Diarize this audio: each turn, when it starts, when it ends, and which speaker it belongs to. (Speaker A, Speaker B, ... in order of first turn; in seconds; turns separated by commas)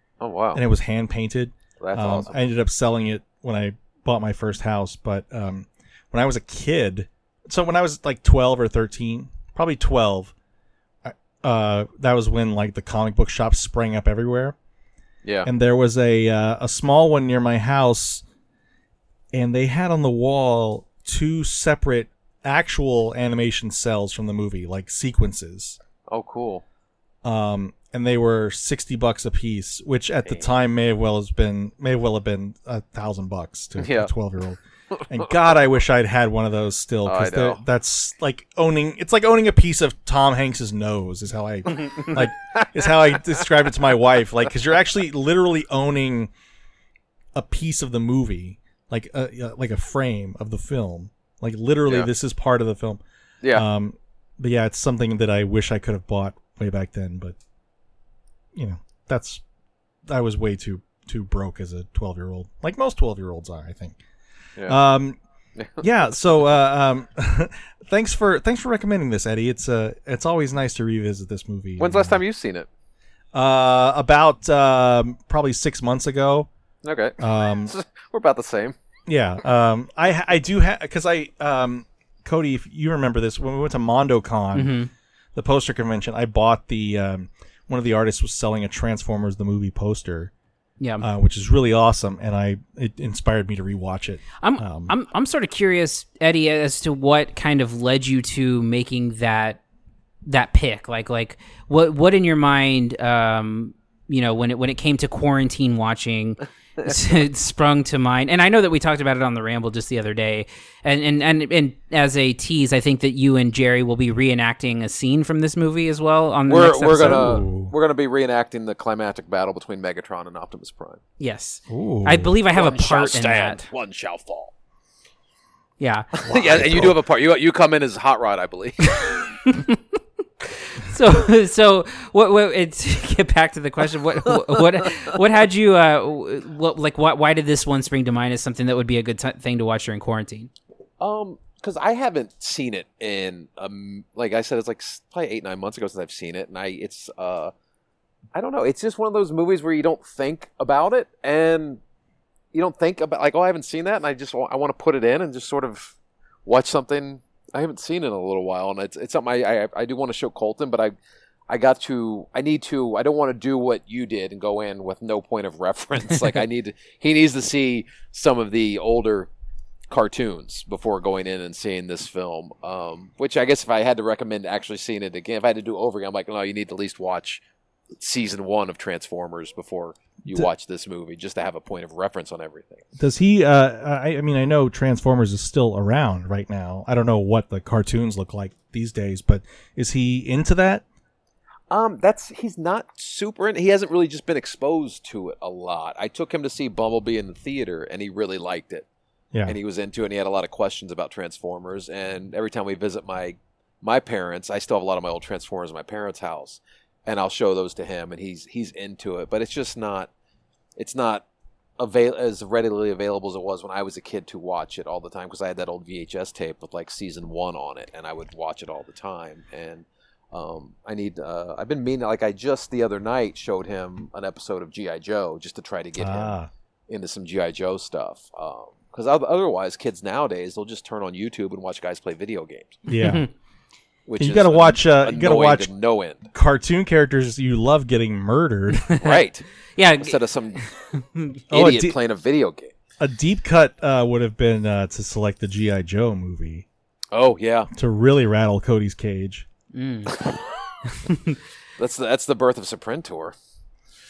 Speaker A: 0.2-0.6, Speaker B: 0.5-10.3, Speaker A: 1.8-2.4, Speaker B: 11.0-14.6, Speaker A: 15.2-15.5, Speaker B: 15.4-18.2, Speaker B: 19.3-25.8, Speaker A: 26.1-26.6, Speaker B: 27.2-46.3, Speaker A: 33.8-34.1, Speaker A: 37.1-37.6, Speaker A: 41.7-43.4, Speaker B: 47.4-53.0, Speaker B: 53.5-57.4, Speaker B: 58.5-59.4, Speaker B: 60.1-64.0, Speaker B: 64.7-65.2, Speaker A: 65.6-65.8, Speaker B: 65.8-72.2, Speaker A: 71.8-72.7, Speaker B: 73.3-76.5, Speaker A: 76.8-78.8, Speaker B: 77.2-77.7, Speaker B: 79.1-84.8, Speaker C: 84.5-84.9, Speaker B: 85.3-90.3, Speaker C: 90.8-91.0, Speaker B: 91.0-94.9, Speaker C: 94.4-99.6, Speaker C: 100.3-117.4, Speaker A: 116.5-121.0, Speaker B: 116.9-117.7, Speaker C: 121.2-123.7, Speaker B: 121.7-122.3, Speaker A: 122.5-124.5, Speaker C: 125.8-126.1, Speaker A: 126.2-128.9, Speaker B: 126.2-127.0, Speaker C: 128.9-129.8, Speaker C: 130.7-140.5, Speaker A: 134.3-135.1, Speaker A: 141.0-147.5, Speaker A: 148.3-151.8, Speaker A: 152.5-160.9, Speaker A: 161.5-169.3, Speaker A: 169.9-177.4, Speaker A: 177.9-182.9, Speaker B: 183.0-190.8, Speaker A: 191.7-198.9, Speaker A: 199.5-210.1, Speaker A: 210.8-211.2, Speaker A: 211.8-226.3, Speaker B: 226.0-226.5, Speaker A: 226.9-232.8, Speaker B: 232.9-233.3, Speaker C: 232.9-233.3, Speaker A: 234.1-236.3, Speaker B: 234.2-235.7, Speaker B: 236.3-238.9, Speaker C: 238.8-241.4, Speaker A: 239.0-239.5, Speaker A: 240.0-240.6, Speaker B: 241.5-242.0, Speaker A: 241.5-242.7, Speaker B: 243.0-246.7, Speaker A: 247.1-247.7, Speaker B: 247.7-249.5, Speaker C: 249.7-250.2, Speaker A: 250.1-250.5, Speaker C: 250.9-251.4, Speaker A: 251.8-253.3